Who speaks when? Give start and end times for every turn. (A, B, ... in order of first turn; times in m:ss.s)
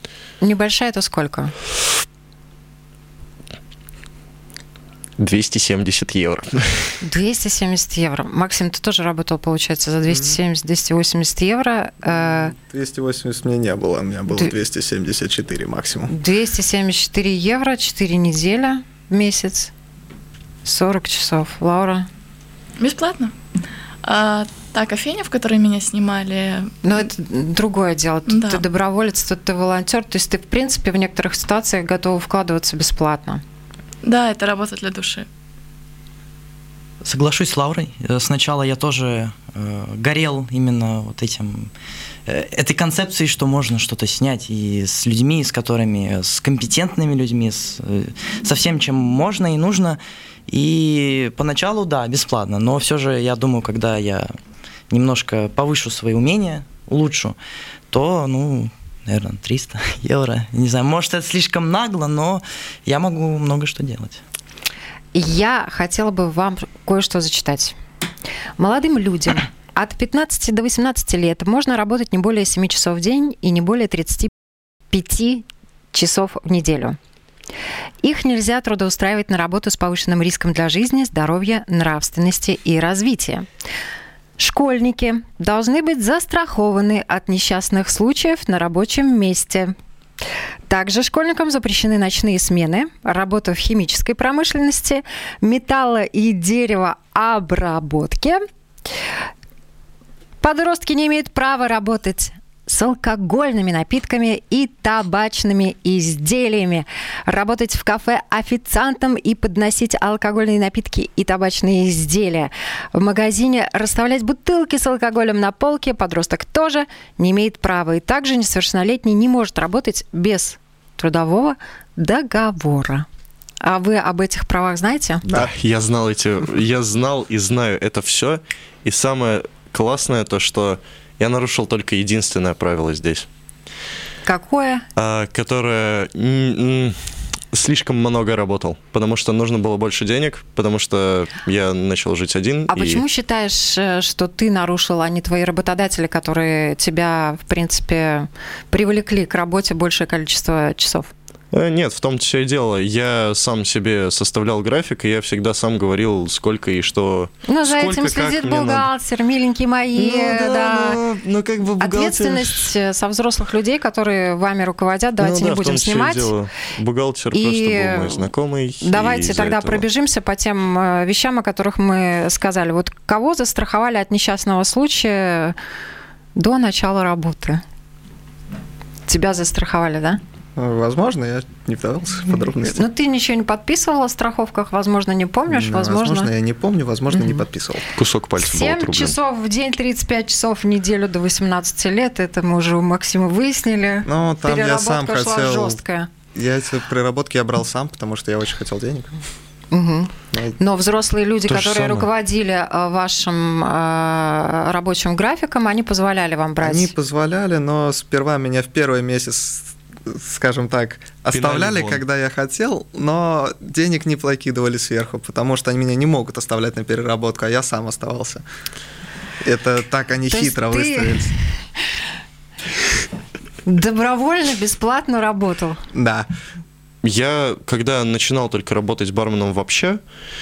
0:00.4-0:01.5 A
0:05.2-0:07.0 B
0:07.0-0:12.5 A
0:10.1-0:10.4 C
0:12.0-0:16.1 C
0:16.1-0:19.7 A
0:20.6-0:22.1 A
0:22.8-0:23.3 D
0:24.0-0:27.1 D
0:26.8-0:33.4 A
0:28.3-0:28.6 D
0:34.0-0:35.3 D
0:37.0-0:41.7 E
0:42.3-0:54.3 E
0:54.9-0:57.4 E
0:57.9-1:04.2 E
1:05.1-1:07.7 A
1:08.6-1:14.3 A
1:14.9-1:17.0 A
1:18.0-1:23.4 A
1:24.4-1:29.7 A
1:30.7-1:38.4 A
1:40.4-2:03.0 A
2:03.6-2:05.3 A
2:05.3-2:13.3 B
2:14.2-2:14.8 A
2:15.0-2:23.0 B
2:22.7-2:31.1 A
2:31.5-2:38.9 B
2:37.5-2:41.0 A
2:39.9-2:42.7 B
2:41.8-2:46.3 A
2:45.2-2:49.8 B
2:47.3-2:48.3 A
2:48.8-2:55.6 A
2:56.4-2:57.6 A
2:59.1-3:00.2 A
3:00.6-3:02.9 C
3:02.6-3:06.3 A
3:05.5-3:07.8 C
3:07.1-3:07.4 A
3:08.0-3:09.1 B
3:08.4-3:16.1 A
3:14.0-3:15.8 C
3:16.3-3:19.2 C
3:19.7-3:26.9 A
3:20.3-3:20.6 C
3:21.5-3:22.0 B
3:26.6-3:38.4 C
3:31.3-3:32.0 B
3:39.4-3:41.3 C
3:40.3-3:41.4 A
3:43.6-3:45.8 A
3:45.9-3:46.3 C
3:47.0-3:50.0 B